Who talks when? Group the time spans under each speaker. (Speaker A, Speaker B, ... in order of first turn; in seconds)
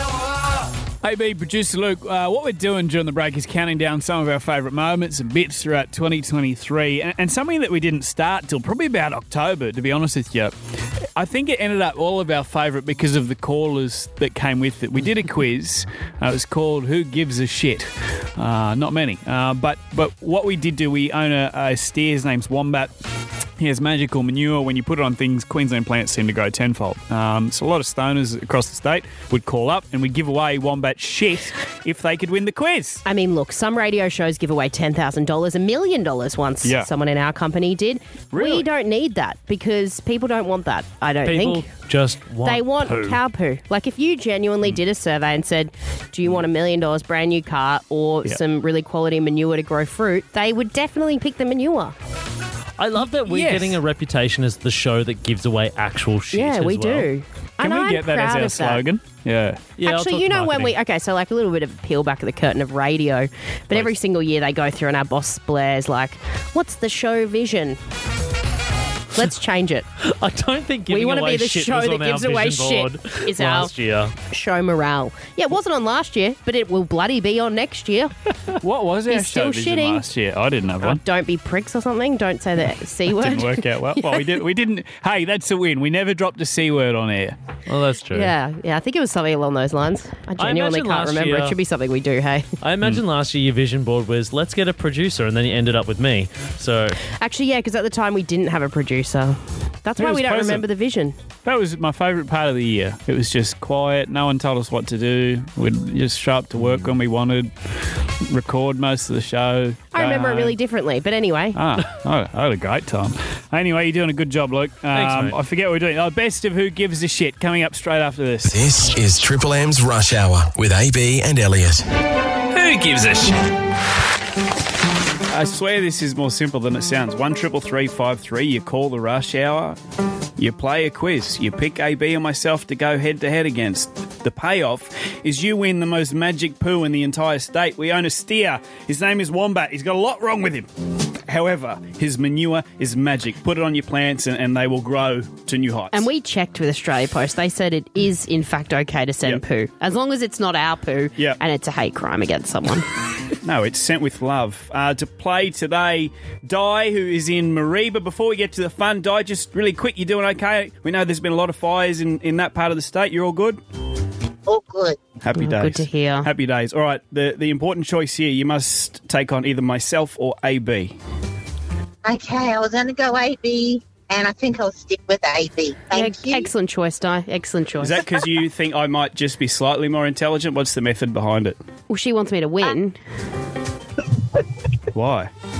Speaker A: 1.0-10.5, 11.2-22.9, 23.6-33.0, 36.6-36.9, 38.3-38.7, 53.2-53.8, 57.6-59.7, 78.6-81.0, 83.1-87.3, 100.0-100.7, 101.4-107.5, 108.2-110.6, 111.5-118.6, 122.5-123.4, 125.3-129.8, 130.4-140.7, 141.3-146.1, 153.4-163.6, 165.2-170.9, 177.8-181.6, 184.9-185.3
Speaker B: 33.0-41.7, 42.4-51.9, 56.3-58.8, 59.8-67.8, 69.1-69.8, 70.9-73.7, 74.3-78.1, 79.1-80.0, 80.8-84.4, 88.1-92.5, 97.2-101.1, 109.9-111.6, 145.9-152.8, 165.3-166.3, 175.9-178.0, 181.9-183.0
Speaker C: 41.2-43.2, 52.8-57.1, 59.8-60.7, 70.0-74.1, 87.7-88.3, 90.4-91.5, 92.6-97.0, 114.9-115.4
Speaker D: 118.5-121.8
Speaker E: 164.4-165.0, 172.0-176.5